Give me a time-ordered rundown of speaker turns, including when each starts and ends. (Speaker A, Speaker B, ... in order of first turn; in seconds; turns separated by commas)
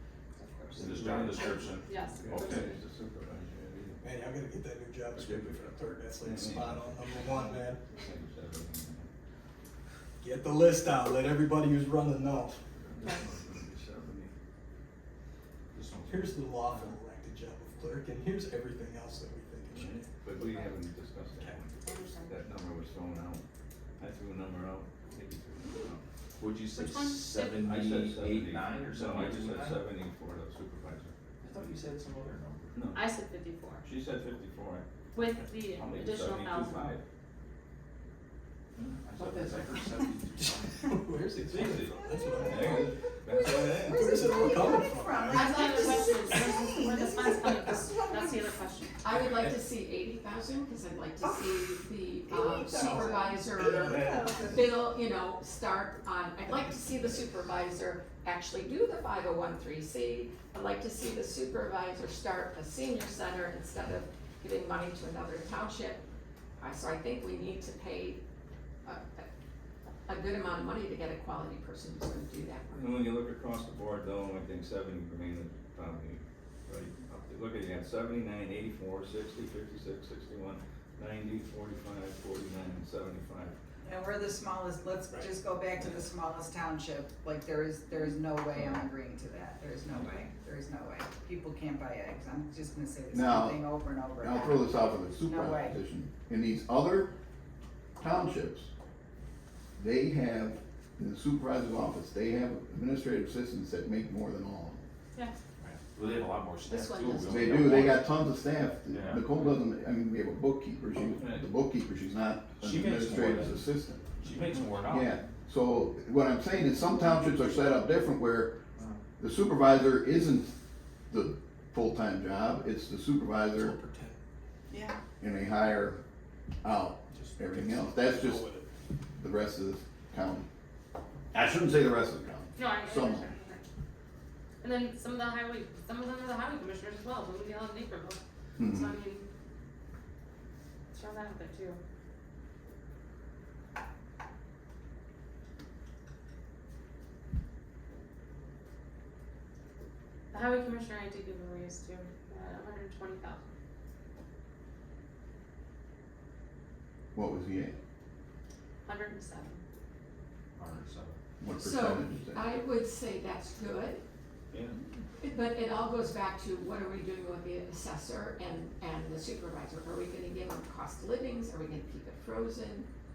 Speaker A: 0.4-0.9, Speaker B: 0.8-2.7, Speaker C: 0.8-4.0, Speaker A: 1.8-2.7, Speaker D: 4.0-7.8, Speaker C: 5.2-5.5, Speaker C: 6.2-7.1, Speaker C: 8.0-9.1, Speaker D: 10.2-12.6, Speaker C: 12.8-14.3, Speaker B: 15.7-16.3, Speaker C: 16.0-16.8, Speaker D: 16.1-20.0, Speaker C: 19.7-23.4, Speaker D: 21.3-21.6, Speaker A: 21.8-22.4, Speaker C: 24.0-26.0, Speaker B: 26.4-30.1, Speaker A: 26.7-27.7, Speaker C: 27.5-31.1, Speaker C: 32.7-33.0, Speaker A: 32.8-33.9, Speaker C: 33.8-34.8, Speaker A: 35.1-36.9, Speaker B: 35.7-36.0, Speaker C: 35.8-37.0, Speaker B: 39.0-40.4, Speaker D: 40.4-46.8, Speaker C: 41.5-44.1, Speaker E: 42.0-42.7, Speaker E: 43.6-48.6, Speaker A: 45.3-48.9, Speaker D: 47.3-47.8, Speaker F: 49.0-66.0, Speaker D: 49.1-49.5, Speaker E: 51.2-51.5, Speaker E: 52.3-53.0, Speaker D: 52.4-54.6, Speaker E: 53.9-54.4, Speaker F: 66.6-68.2, Speaker F: 68.8-69.3, Speaker F: 70.0-73.0, Speaker C: 72.7-83.5, Speaker E: 83.8-95.8, Speaker G: 93.1-93.6, Speaker G: 94.2-97.1, Speaker G: 98.0-98.7, Speaker G: 99.8-104.8, Speaker B: 105.6-108.0, Speaker F: 106.7-107.7, Speaker G: 107.2-114.2, Speaker B: 108.9-109.2, Speaker B: 112.7-113.5, Speaker B: 114.2-115.0, Speaker G: 114.8-118.5, Speaker G: 119.2-120.5, Speaker G: 121.1-123.7, Speaker D: 123.5-124.2, Speaker E: 124.7-125.0, Speaker G: 125.2-126.0, Speaker G: 126.6-128.5, Speaker D: 127.1-128.7, Speaker G: 129.2-130.5, Speaker G: 131.3-133.3, Speaker A: 132.6-133.7, Speaker A: 134.6-139.2, Speaker G: 138.6-138.9, Speaker A: 140.9-141.8, Speaker A: 150.3-153.4, Speaker G: 157.1-157.8, Speaker A: 158.8-159.6, Speaker B: 160.6-161.1, Speaker G: 161.4-162.5, Speaker F: 161.6-164.0, Speaker F: 165.2-172.9